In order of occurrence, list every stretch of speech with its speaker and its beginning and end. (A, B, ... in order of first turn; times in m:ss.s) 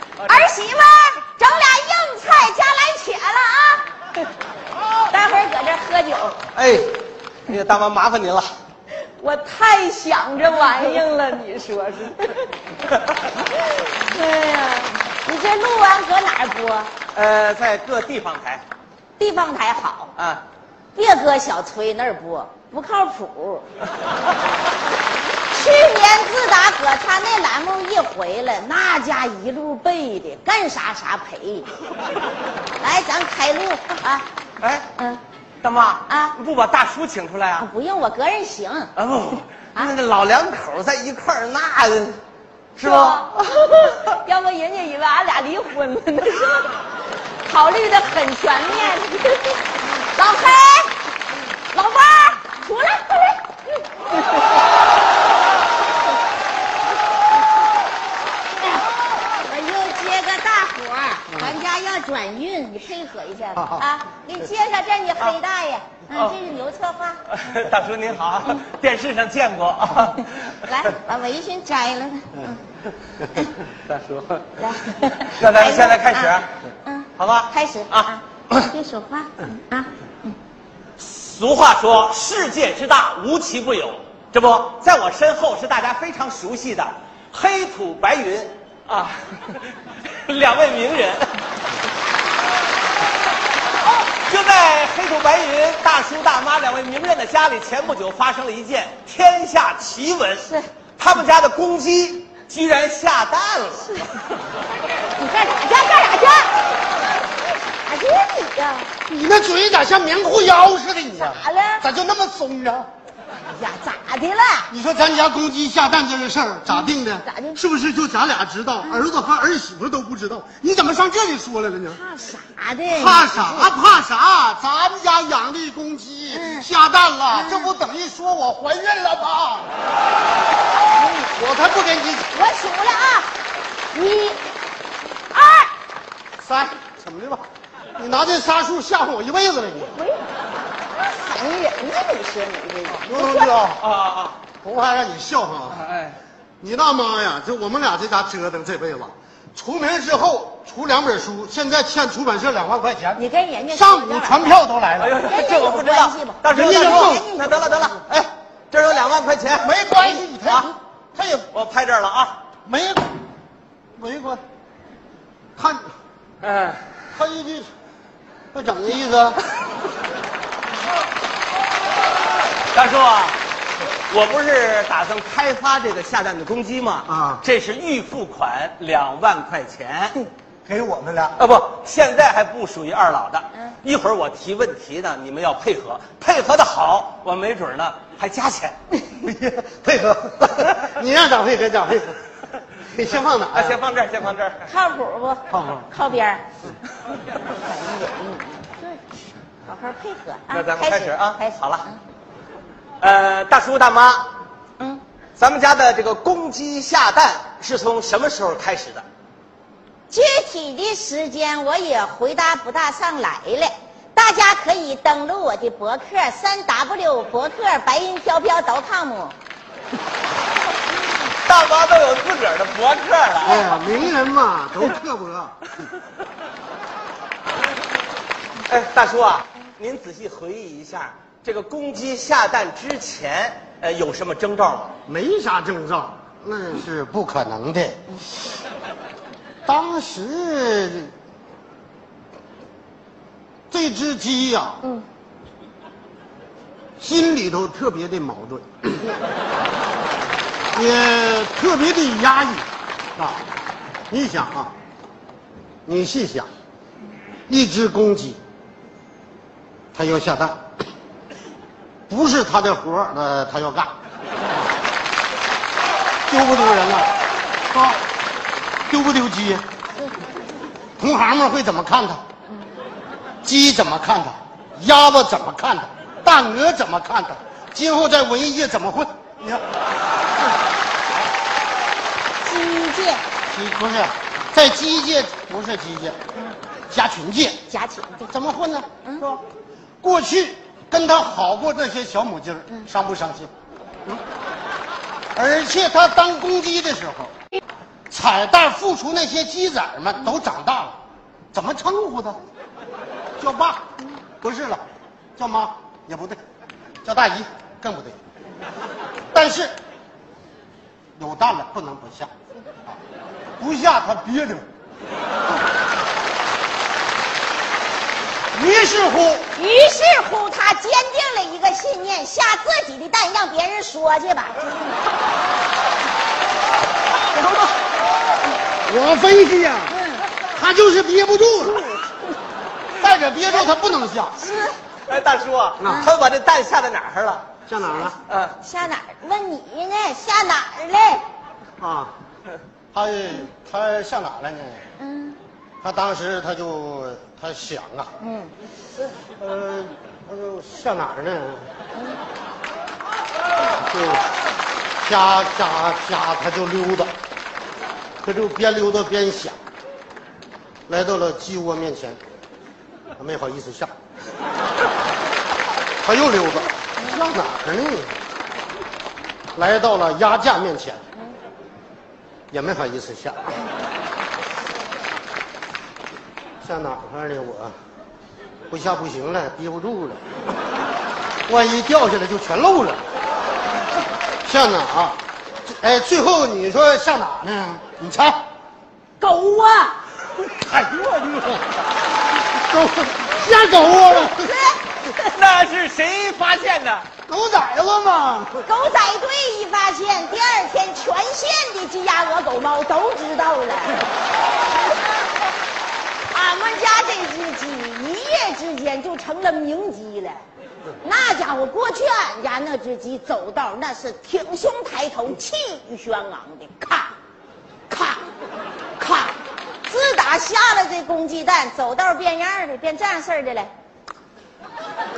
0:00.2-0:00.5 A
0:00.3-0:03.9 B
0:05.1-0:06.4 B
0:06.5-0:08.6 A
0:09.0-0:12.5 B
0:13.4-0:16.9 B
0:17.1-0:18.6 A
0:19.2-0:20.1 B
0:20.2-0:20.4 A
0:21.0-0:23.7 B
0:25.5-0:31.7 B
0:32.8-0:34.3 B
0:34.6-0:34.9 A
0:35.0-0:35.2 B
0:35.6-0:37.7 A
0:36.1-0:36.4 B
0:37.6-0:38.9 B
0:39.0-0:42.2 A
0:42.8-0:43.4 A
0:42.8-0:46.7 B
0:47.4-0:50.9 B
0:51.7-0:54.6 B
0:58.6-1:07.2 B
1:01.3-1:01.6 C
1:03.6-1:03.9 C
1:07.3-1:10.5 A
1:10.6-1:12.6 B
1:13.8-1:14.5 A
1:14.6-1:20.4 B
1:15.3-1:16.5 A
1:17.2-1:18.7 A
1:21.0-1:29.6 A
1:30.3-1:31.4 A
1:34.1-1:43.9 A
1:45.2-1:46.6 B
1:47.7-1:48.9 B
1:49.1-1:52.9 C
1:51.2-1:51.9 B
1:53.4-1:54.7 B
1:54.7-2:02.0 C
1:56.7-1:57.6 B
1:58.8-1:59.1 B
2:01.9-2:03.8 B
2:02.9-2:09.7 C
2:06.3-2:06.7 B
2:07.3-2:07.7 B
2:11.2-2:12.3 C
2:12.3-2:13.3 B
2:13.9-2:14.4 B
2:15.3-2:15.7 B
2:16.4-2:17.4 C
2:18.0-2:20.0 C
2:19.9-2:20.3 B
2:21.0-2:23.6 B
2:23.1-2:23.8 C
2:23.8-2:24.4 A
2:24.6-2:25.8 C
2:25.7-2:26.2 A
2:26.6-2:35.2 C
2:33.2-2:34.6 B
2:35.0-2:39.8 A
2:35.2-2:38.0 B
2:36.5-2:37.3 C
2:39.6-2:41.4 C
2:40.4-2:40.7 A
2:41.2-2:42.4 A
2:42.7-2:43.1 C
2:44.0-2:44.4 C
2:45.6-2:45.9 C
2:46.4-2:46.8 A
2:47.1-2:47.7 C
2:48.5-2:49.4 C
2:52.7-2:53.4 A
2:54.1-3:00.2 A
2:57.1-2:57.4 C
3:00.7-3:01.4 C
3:01.4-3:08.8 A
3:09.2-3:12.2 C
3:12.8-3:13.8 C
3:13.5-3:14.7 A
3:14.6-3:16.5 B
3:15.5-3:15.9 C
3:17.5-3:19.0 B
3:19.6-3:22.0 B
3:20.5-3:21.9 A
3:23.0-3:24.3 A
3:25.4-3:29.0 A
3:30.1-3:39.4 B
3:41.4-3:43.7 A
3:43.4-3:45.6 C
3:43.5-3:44.0 B
3:48.7-3:55.0 A
3:55.1-3:58.0 C
3:59.7-4:01.1 C
4:03.7-4:04.9 C
4:07.0-4:09.2 C
4:10.7-4:13.4 C
4:14.1-4:14.7 C
4:15.9-4:16.5 C
4:17.5-4:18.4 C
4:19.9-4:20.6 C
4:22.1-4:23.9 C
4:26.3-4:27.1 C
4:27.7-4:28.0 C
4:28.9-4:29.6 C
4:31.0-4:32.2 C
4:33.4-4:39.6 C
4:42.4-4:43.2 B
4:43.5-4:46.2 C
4:46.9-4:47.6 C
4:47.7-4:48.3 B
4:48.3-4:49.4 C
4:49.0-4:49.3 B
4:50.0-4:53.5 C
4:55.4-4:57.3 C
4:58.1-5:01.0 C
5:01.5-5:02.4 C
5:03.4-5:03.8 C
5:04.4-5:04.8 C
5:05.4-5:06.4 C
5:07.0-5:08.2 C
5:09.3-5:09.8 C
5:11.2-5:12.3 C
5:13.6-5:14.7 C
5:18.5-5:19.5 C
5:19.5-5:24.9 B
5:28.8-5:30.0 C
5:29.9-5:30.3 B
5:30.5-5:31.9 C
5:31.7-5:32.3 B
5:33.0-5:34.5 C
5:34.4-5:34.8 B
5:35.1-5:37.5 A
5:35.8-5:36.1 C
5:35.8-5:36.1 B
5:37.7-5:38.2 C
5:37.9-5:41.3 B
5:38.3-5:38.6 A
5:41.8-5:42.1 C
5:42.9-5:44.8 C
5:45.0-5:45.4 B
5:45.8-5:48.1 C
5:48.2-5:48.5 B
5:49.2-5:51.7 C
5:53.8-5:54.2 C
5:55.0-5:57.1 C
5:58.2-5:59.6 C
6:00.9-6:02.2 C
6:03.2-6:03.9 C
6:06.0-6:08.2 C
6:09.6-6:11.0 C
6:12.5-6:13.6 C
6:16.6-6:17.8 C
6:18.7-6:20.2 C
6:21.5-6:23.0 C
6:24.4-6:28.4 C
6:29.2-6:30.0 B
6:30.4-6:31.6 C
6:32.5-6:34.5 C
6:34.3-6:35.1 B
6:35.2-6:37.1 A
6:37.3-6:38.7 C
6:38.6-6:44.1 B
6:46.3-6:50.4 B
6:51.0-6:57.1 B
6:57.9-6:58.2 B
6:59.0-7:03.7 B